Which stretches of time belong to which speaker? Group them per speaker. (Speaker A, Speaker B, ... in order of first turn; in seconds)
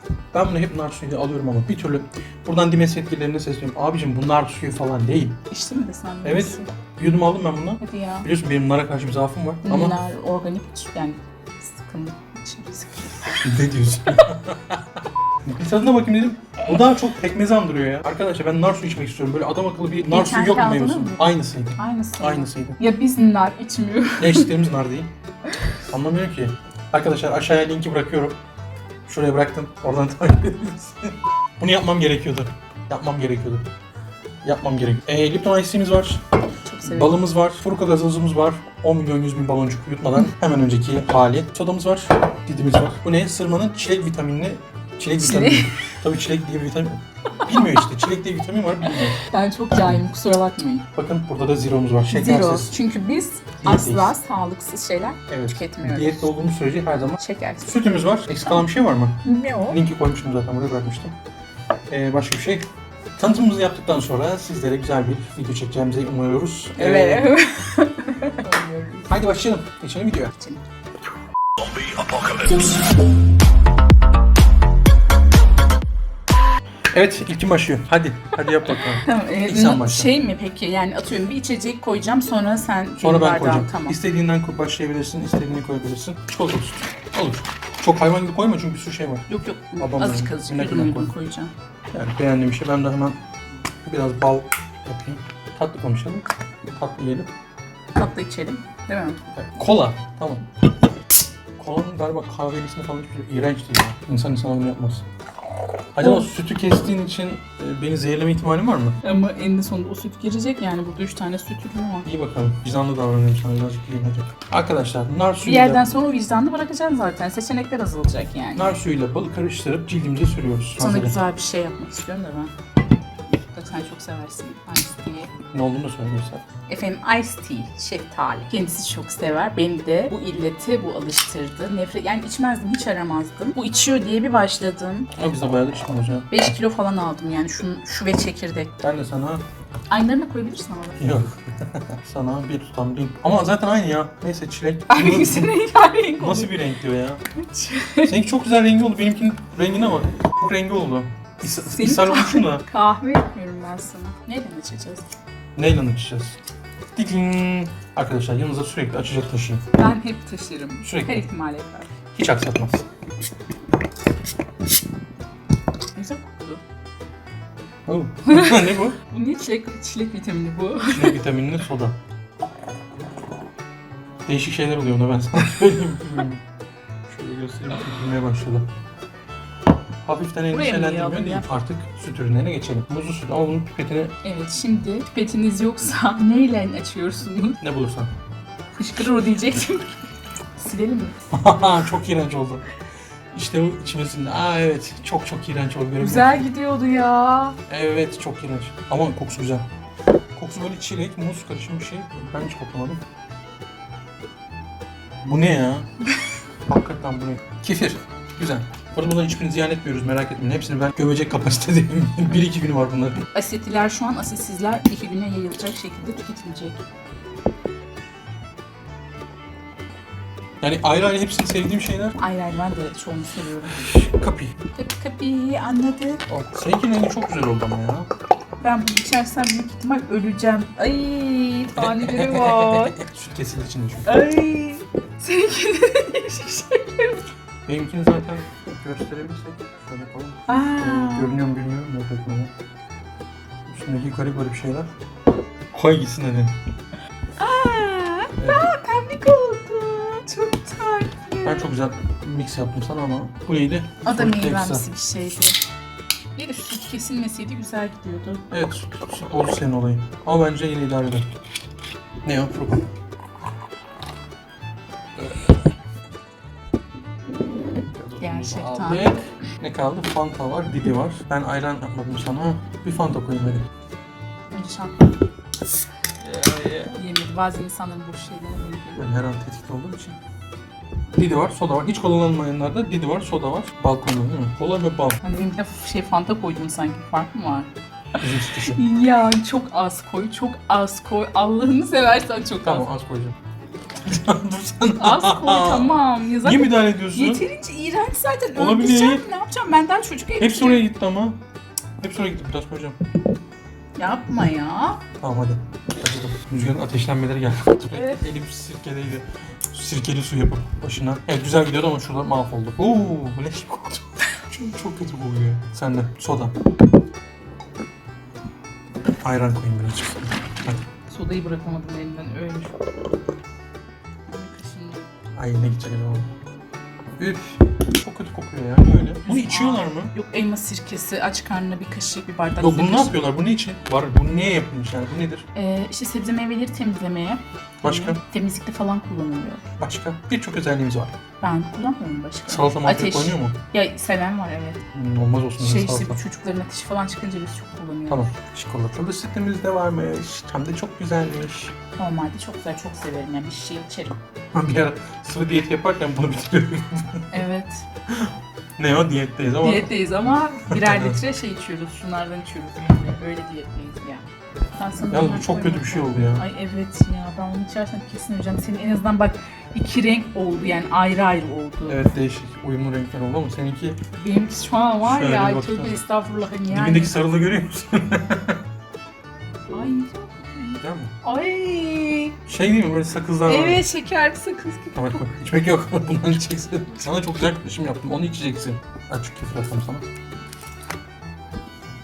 Speaker A: 0.3-5.4, 6.2-10.0, 13.4-14.8, 15.4-22.8, 24.2-25.1, 25.8-28.4, 29.1-33.6, 34.4-36.2, 36.8-49.2, 50.9-52.7, 53.6-54.1, 55.3-61.1, 61.9-62.6, 63.2-67.3, 69.1-70.3, 76.9-80.1, 83.0-91.1, 91.9-93.2, 93.8-97.3, 99.3-100.4, 101.6-105.0, 105.9-109.0, 112.0-115.9, 118.5-121.2, 125.5-126.4, 135.2-136.3, 138.8-139.4, 141.0-145.5, 146.2-147.2, 148.0-152.6, 155.6-156.4, 156.9-159.6, 160.8-161.3, 162.1-162.8, 167.9-169.0, 170.9-172.0, 174.2-176.4, 177.1-178.6, 180.0-184.2, 187.6-188.1, 191.3-192.7, 193.3-196.5, 197.7-199.7, 200.3-203.0, 205.2-205.9, 206.7-213.2, 220.6-222.2, 223.8-224.6, 226.3-228.1, 231.8-234.1, 237.7-242.5, 243.7-244.9, 245.7-246.5, 248.4-248.7, 251.4-254.8, 258.5-261.3, 262.2-262.8, 267.9-273.6, 276.2-276.9, 279.0-280.2, 281.1-285.2, 288.2-288.8, 292.6-293.4, 294.0-295.9, 296.4-297.4, 298.6-299.2, 300.4-301.4, 302.0-303.0, 305.2-316.5, 319.2-320.8, 325.4-326.3, 327.2-330.1, 332.6-335.5, 337.8-338.2, 339.8-341.1, 342.5-343.6, 344.9-346.2, 348.1-351.8, 354.5-357.3, 358.1-359.9, 360.7-361.2, 365.1-366.4, 371.9-374.0, 375.0-376.0, 376.7-378.6, 380.8-381.1, 382.5-383.9, 384.9-390.0
Speaker B: 5.5-6.7, 7.8-8.3, 9.6-13.5, 20.1-24.5, 36.6-37.2, 45.2-45.9, 47.4-47.9, 48.8-50.9, 52.1-56.3, 57.2-57.9, 59.2-59.8, 66.8-69.2, 70.4-70.6, 72.3-72.8, 78.8-84.0, 89.3-91.5, 97.9-99.2, 106.0-106.3, 109.0-112.0, 115.4-118.7, 120.8-122.5, 123.3-125.3, 126.7-135.1, 136.3-138.7, 139.9-141.2, 144.9-146.5, 147.4-148.1, 151.5-155.0, 159.7-161.9, 165.9-166.6, 168.2-171.2, 180.5-181.5, 184.2-187.6, 188.7-190.0, 190.6-191.2, 196.0-197.6, 213.3-216.8, 222.2-223.8, 224.7-226.2, 228.6-233.0, 234.0-237.3, 240.5-241.4, 247.4-251.7, 254.0-255.6, 256.4-258.4, 268.2-269.2, 274.5-275.2, 276.9-279.1, 285.2-287.7, 288.6-292.9, 295.0-300.8, 304.0-305.0, 307.9-308.2, 321.1-322.8, 324.3-325.0, 329.2-333.1, 335.5-339.6, 341.4-344.8, 345.6-348.3, 351.9-354.2, 357.3-357.9, 359.6-364.2, 364.8-372.1, 374.1-377.2, 379.7-382.4, 383.4-385.2